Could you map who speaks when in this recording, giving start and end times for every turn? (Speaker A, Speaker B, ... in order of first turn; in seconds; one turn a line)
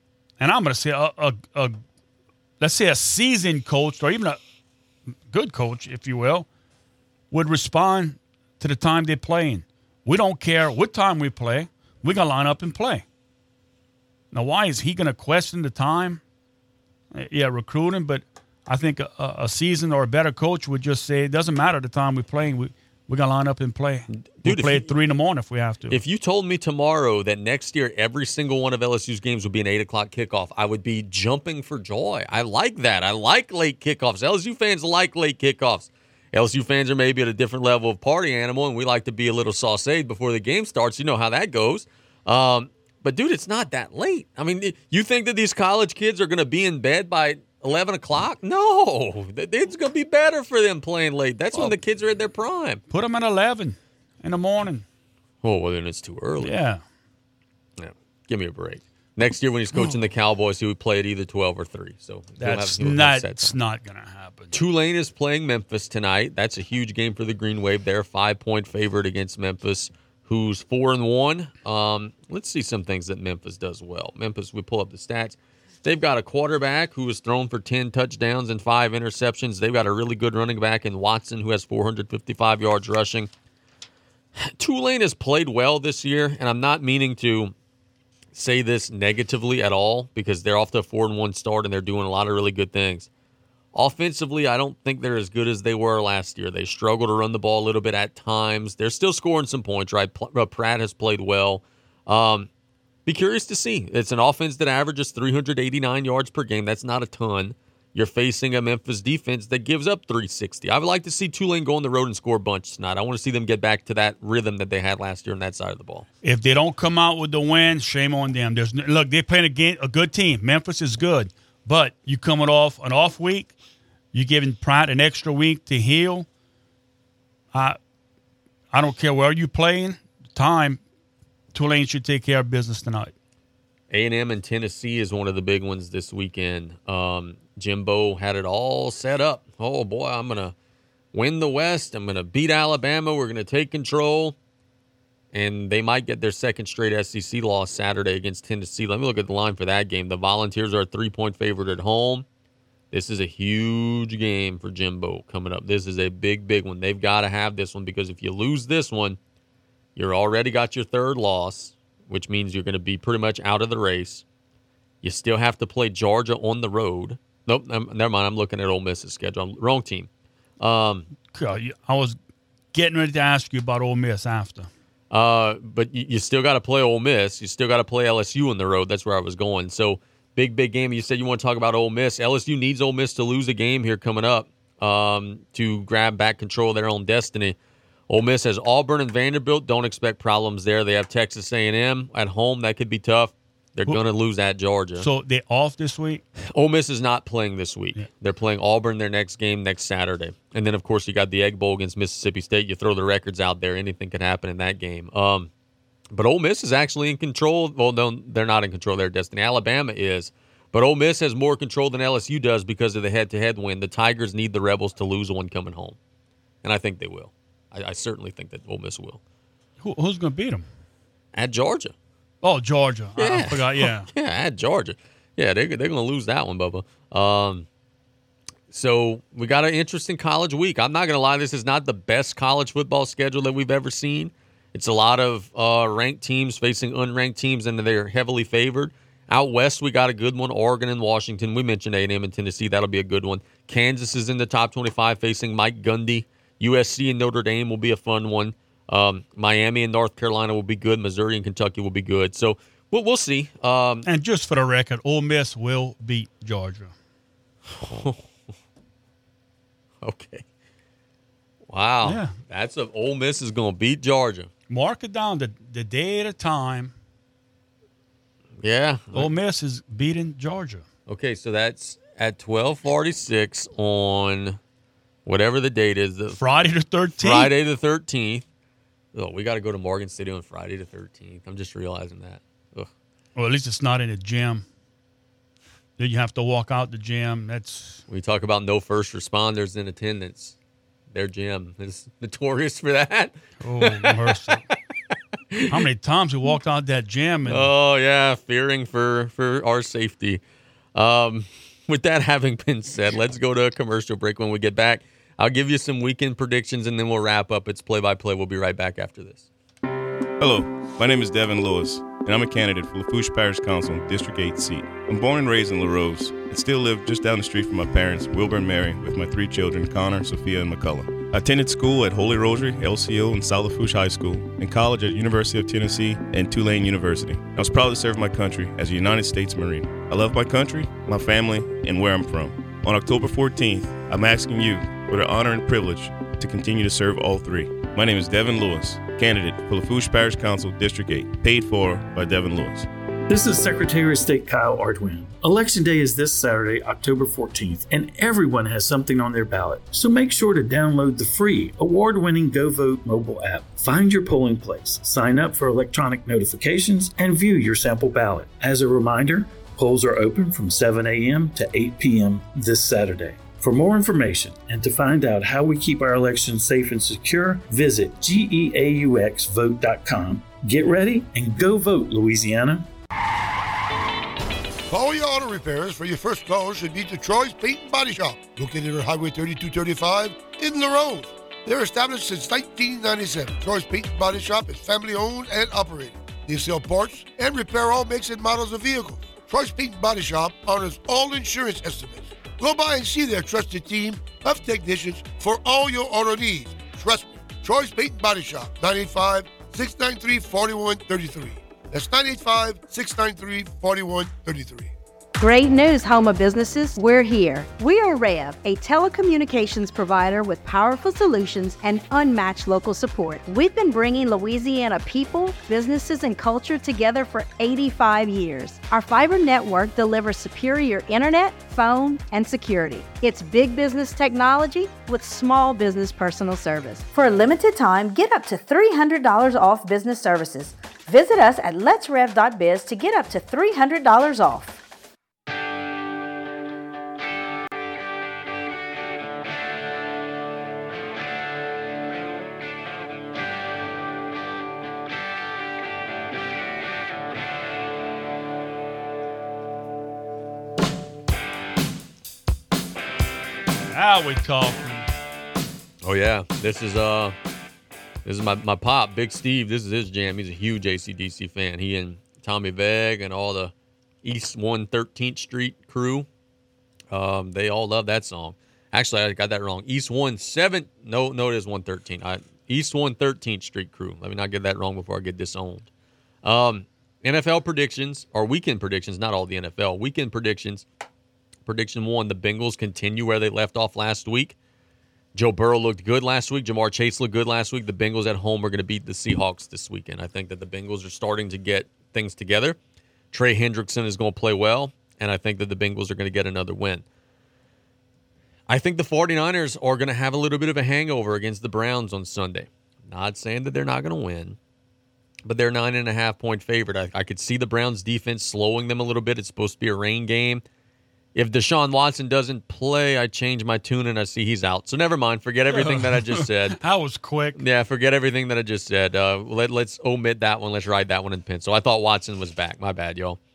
Speaker A: 0.4-1.8
Speaker A: 2.6-4.4
Speaker A: 5.3-6.5
Speaker A: 7.3-13.1
Speaker A: 14.3-16.2
Speaker A: 17.1-26.0
Speaker B: 24.2-24.9
Speaker B: 25.9-52.8
Speaker A: 52.9-54.8
Speaker B: 55.4-56.5
Speaker A: 56.4-56.8
Speaker B: 57.8-63.6
Speaker A: 59.8-60.0
Speaker A: 62.4-64.5
Speaker B: 64.5-83.3
Speaker B: 84.4-87.5
Speaker B: 88.3-93.1
Speaker B: 93.7-102.5
Speaker B: 103.1-116.1
Speaker A: 116.2-123.5
Speaker A: 124.1-126.3
Speaker A: 128.7-130.8
Speaker A: 131.5-133.1
Speaker B: 133.9-140.5
Speaker B: 141.1-144.4
Speaker B: 145.3-152.2
Speaker B: 152.9-159.2
Speaker B: 160.0-164.2
Speaker B: 165.0-170.1
Speaker B: 170.6-171.1
Speaker A: 171.3-172.2
Speaker A: 172.7-174.7
Speaker B: 175.1-187.6
Speaker B: 188.1-195.1
Speaker A: 195.0-196.2
Speaker B: 196.5-205.5
Speaker B: 206.1-216.0
Speaker B: 216.6-219.2
Speaker A: 219.8-220.7
Speaker B: 221.3-221.9
Speaker A: 222.4-224.1
Speaker B: 223.2-227.7
Speaker B: 228.7-254.1
Speaker A: 254.1-256.9
Speaker B: 257.7-258.2
Speaker B: 260.0-260.4
Speaker B: 261.7-264.5
Speaker A: 262.0-262.4
Speaker A: 264.7-266.9
Speaker B: 268.6-269.3
Speaker A: 269.1-270.9
Speaker B: 271.1-274.6
Speaker B: 275.3-276.4
Speaker A: 276.4-277.5
Speaker B: 277.2-278.5
Speaker B: 279.1-282.9
Speaker A: 283.4-284.6
Speaker A: 286.0-288.0
Speaker B: 288.1-290.6
Speaker B: 291.1-294.7
Speaker A: 293.6-294.6
Speaker A: 295.7-297.7
Speaker B: 297.5-300.4
Speaker B: 300.9-309.5
Speaker C: 310.4-342.9
Speaker D: 343.3-372.9
Speaker E: 374.9-404.9
Speaker F: 405.4-434.8
Speaker A: 453.9-455.1
Speaker B: 456.0-457.4
Speaker B: 458.2-466.3
Speaker B: 467.1-475.9
Speaker B: 476.4-480.9
Speaker B: 481.7-484.6
Speaker B: 485.4-492.8
Speaker B: 493.3-497.1
Speaker B: 498.7-504.6
Speaker B: 505.4-510.6
Speaker B: 511.4-516.8
Speaker A: 515.7-517.6
Speaker B: 517.5-523.4